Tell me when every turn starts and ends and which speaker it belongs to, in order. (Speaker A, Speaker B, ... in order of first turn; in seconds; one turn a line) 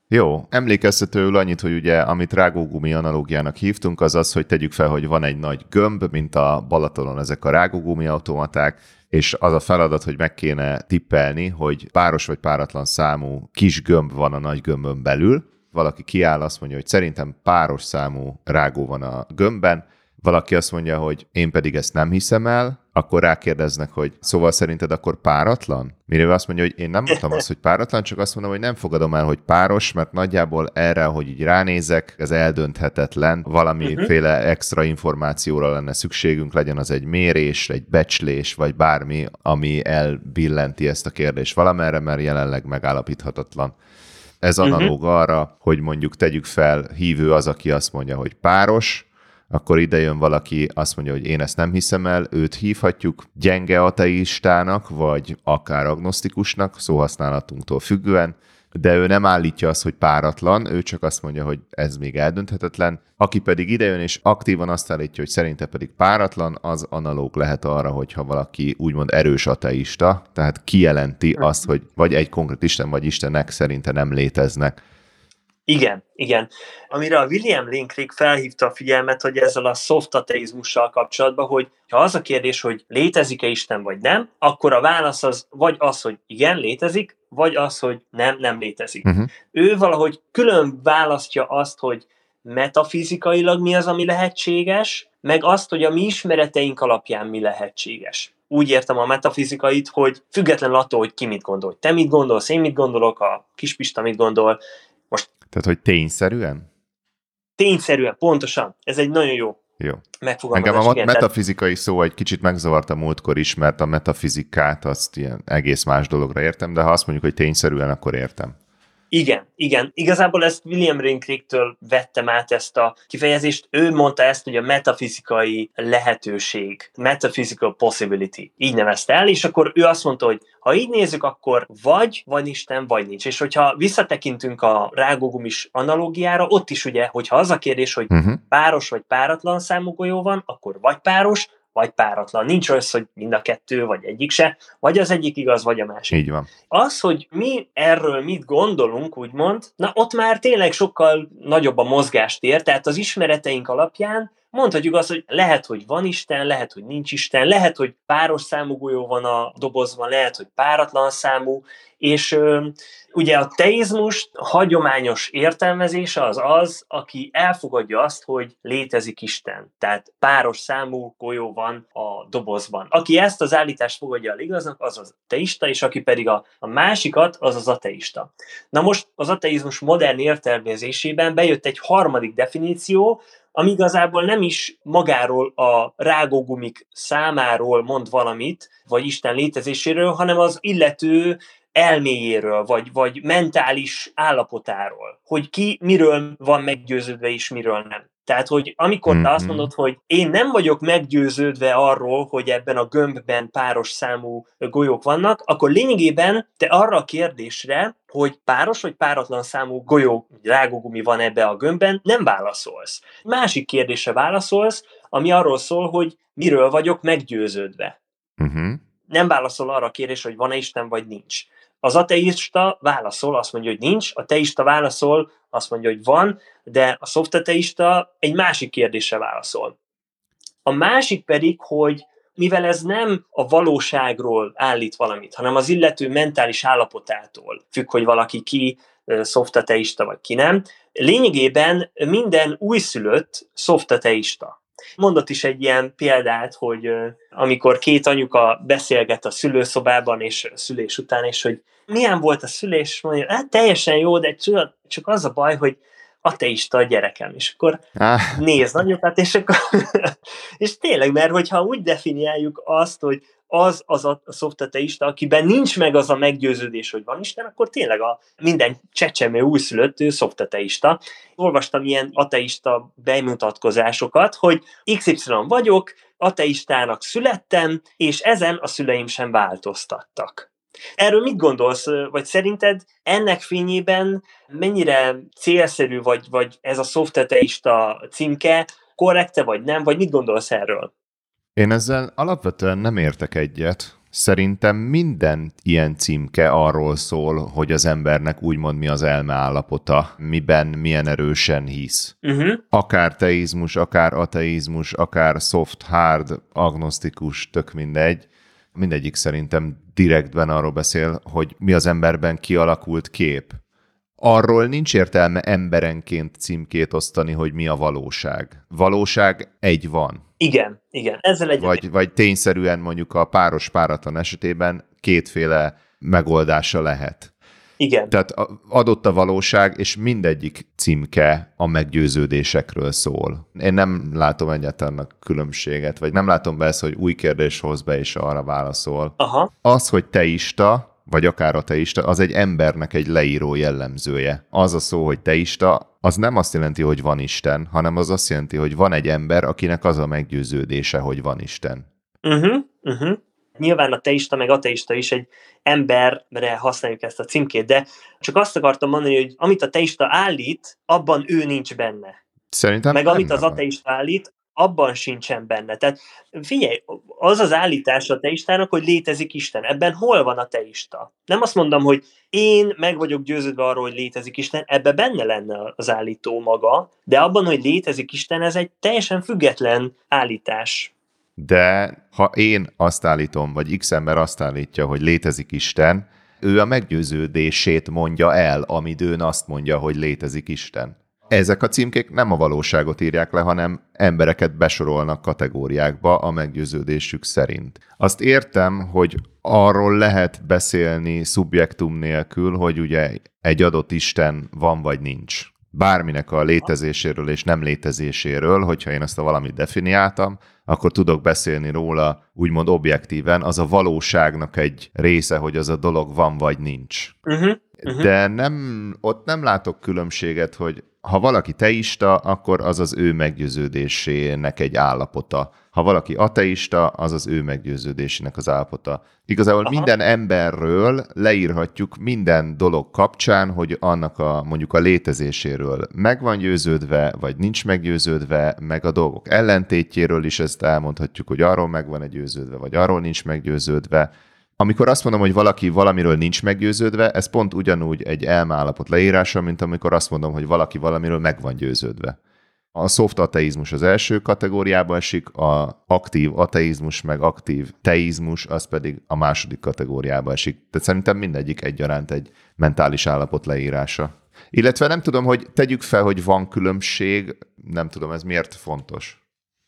Speaker A: 0.1-43.8
Speaker B: 33.8-34.1
Speaker A: 44.4-74.8
Speaker B: 44.6-44.9
Speaker B: 75.7-104.6
Speaker A: 89.0-89.3
Speaker A: 105.5-106.7
Speaker B: 107.6-109.6
Speaker B: 110.2-111.3
Speaker A: 110.5-118.5
Speaker B: 119.1-146.2
Speaker A: 138.1-138.4
Speaker A: 146.1-146.5
Speaker B: 146.7-218.0
Speaker A: 199.1-199.7
Speaker A: 218.4-218.8
Speaker B: 219.1-229.8
Speaker B: 230.7-257.8
Speaker A: 258.0-258.4
Speaker B: 258.4-290.9
Speaker A: 291.6-302.1
Speaker B: 302.2-302.6
Speaker A: 302.7-313.6
Speaker A: 314.2-320.2
Speaker B: 320.4-321.8
Speaker A: 321.6-327.3
Speaker B: 327.8-328.1
Speaker A: 328.1-351.9
Speaker B: 339.2-339.5
Speaker B: 352.2-362.2
Speaker A: 362.5-363.6
Speaker B: 362.9-380.9
Speaker A: 381.4-417.2
Speaker B: 417.3-418.1
Speaker A: 417.8-452.2
Speaker B: 429.6-429.9
Speaker A: 452.8-469.2